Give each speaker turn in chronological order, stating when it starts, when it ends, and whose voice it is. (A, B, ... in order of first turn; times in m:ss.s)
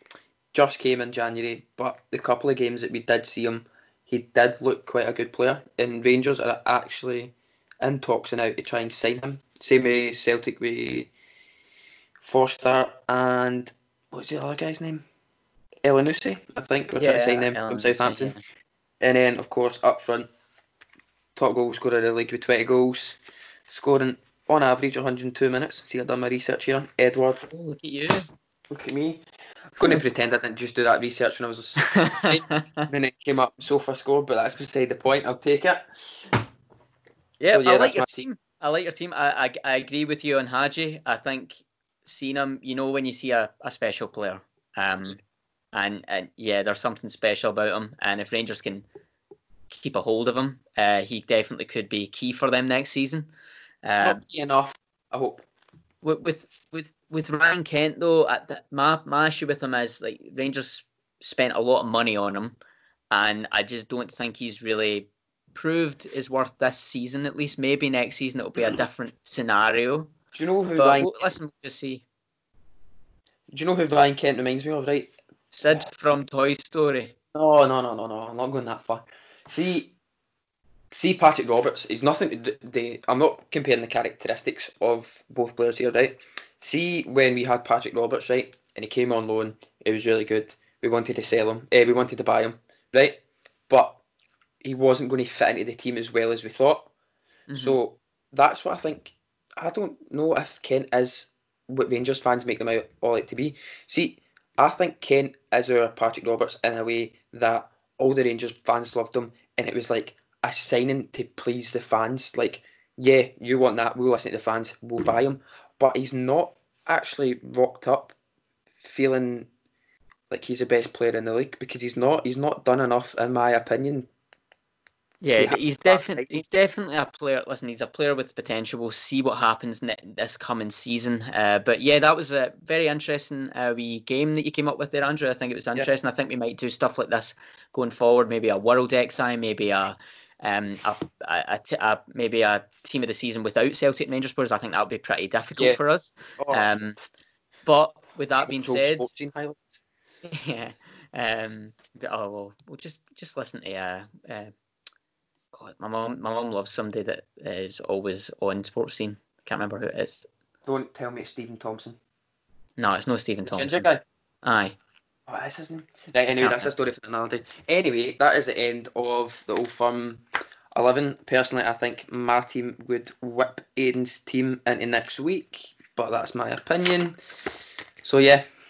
0:00.5-0:11.1 A
0:12.2-0:15.0 A
0:15.8-0:18.3 A
0:17.0-0:18.4 B
0:19.0-0:20.3 A
0:21.4-0:27.5 A
0:27.5-0:28.3 B
0:28.7-0:36.4 A
0:31.8-0:32.9 B
0:37.4-0:45.2 B
0:37.5-0:38.2 A
0:45.7-0:48.8 B
0:49.7-0:53.3 B
0:53.8-0:54.2 B
0:54.0-0:55.4 A
0:56.0-1:02.5 B
1:03.1-1:10.1 B
1:10.3-1:11.1 A
1:10.8-1:12.0 B
1:13.5-1:15.2 A
1:15.5-1:17.1 B
1:17.3-1:19.9 A
1:20.9-1:34.0 A
1:34.6-1:36.9 A
1:37.5-1:37.8 B
1:37.5-1:58.2 A
1:58.8-1:59.5 A
2:00.3-2:04.1 A
2:05.2-2:27.0 B
2:05.4-2:06.4 A
2:26.4-2:26.7 A
2:27.6-2:29.1 B
2:28.4-2:29.7 A
2:30.2-2:34.5 B
2:35.5-2:40.2 B
2:40.6-2:42.0 A
2:42.8-2:43.9 B
2:43.4-2:44.0 A
2:44.4-2:44.8 B
2:45.3-2:50.2 A
2:46.4-2:46.7 B
2:50.7-2:57.2 A
2:58.0-2:58.4 A